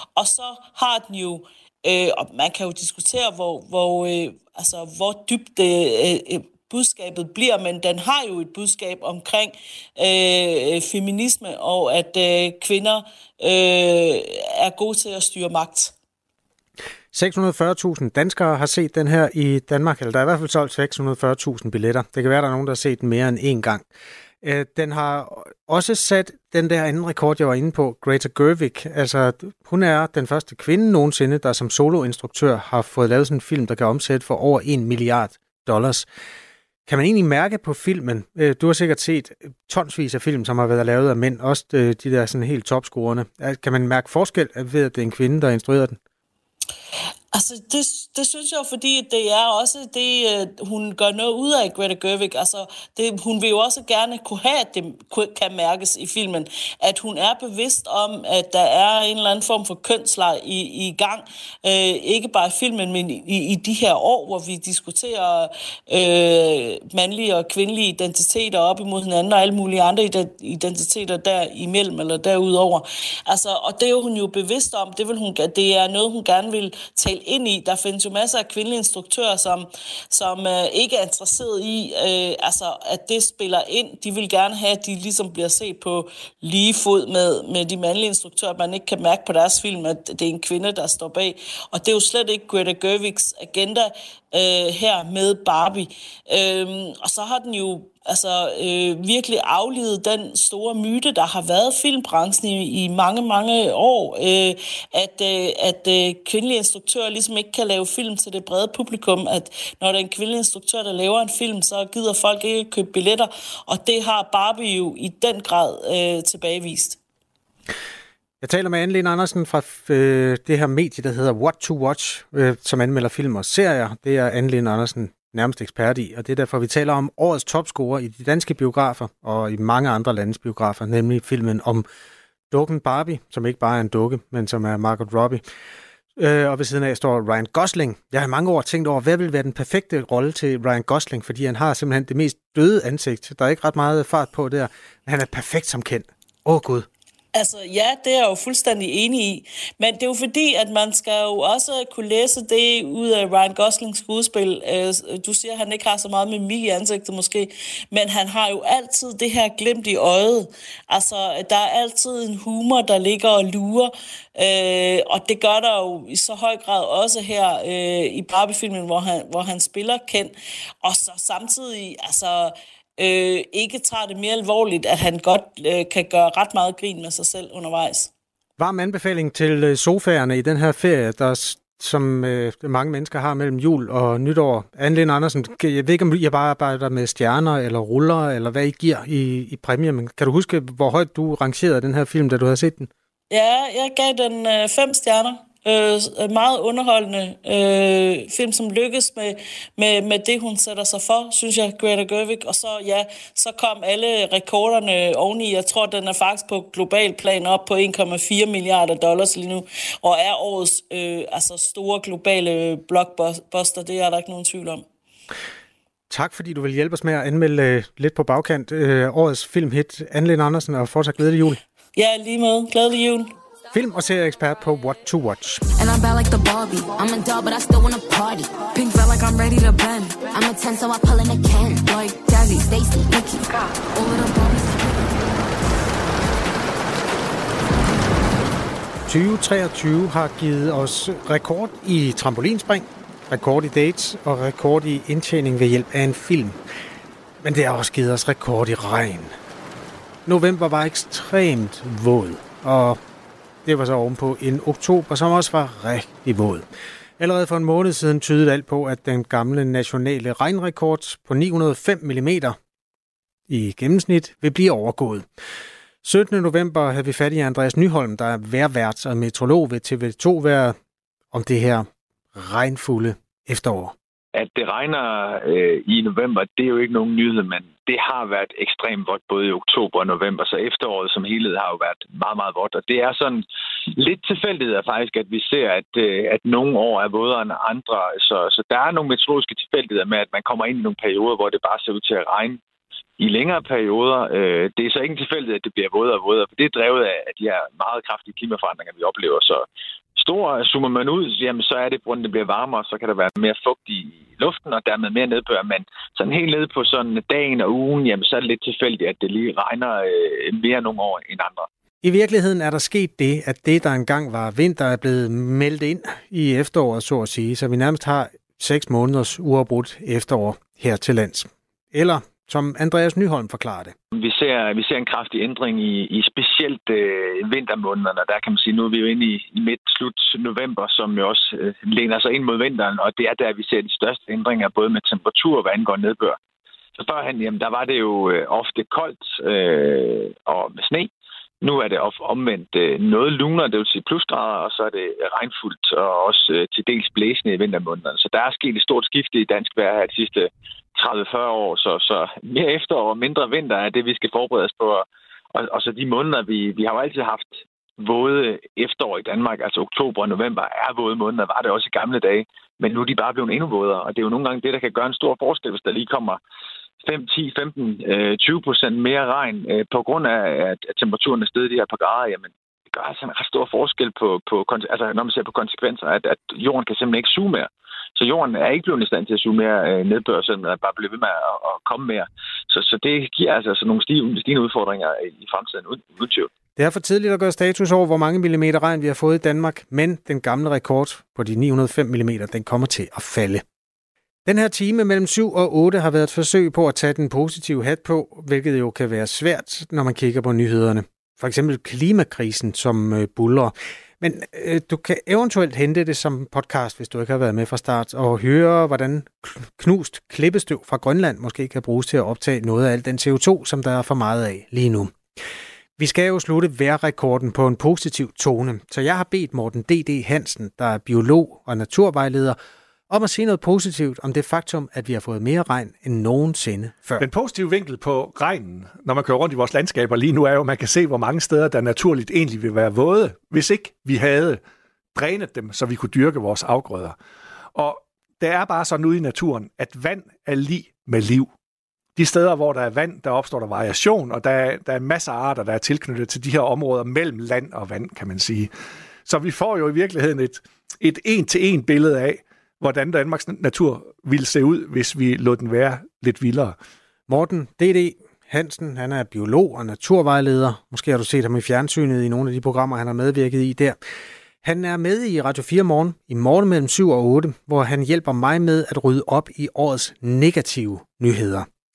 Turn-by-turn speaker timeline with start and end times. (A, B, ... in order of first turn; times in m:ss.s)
0:00.2-0:15.9 A
0:17.1-0:23.8 B
0:24.4-0:36.1 B
0:36.8-0:46.0 B
0:47.3-1:57.0 A
1:58.4-2:11.8 B
2:12.5-2:15.4 B
2:16.2-2:26.8 B
2:27.3-2:58.1 A
2:58.6-3:12.9 B
3:13.3-3:34.8 A
3:36.1-3:41.6 B
3:42.0-3:43.3 A
3:43.7-3:45.6 B
3:45.8-3:55.0 C
3:59.0-4:06.6 B
4:07.4-4:09.3 B
4:10.2-4:13.0 B
4:13.6-4:16.6 B
4:17.2-4:22.6 B
4:23.5-4:25.3 B
4:26.0-4:30.8 B
4:31.3-4:33.9 B
4:34.3-4:52.6 D
4:53.2-4:59.6 D
5:00.2-5:11.7 D
5:12.0-5:23.9 B
5:24.2-5:36.4 D
5:37.0-5:41.1 D
5:41.6-6:06.4 D
6:07.0-6:26.5 D
6:26.8-6:33.6 B
6:34.4-6:55.2 B
6:56.0-7:02.6 B
7:03.1-7:07.2 B
7:07.2-7:14.6 E
7:15.1-7:17.2 E
7:17.7-7:21.5 E
7:22.2-7:28.7 E
7:29.2-7:36.8 E
7:37.3-7:44.0 B
7:44.6-7:51.7 B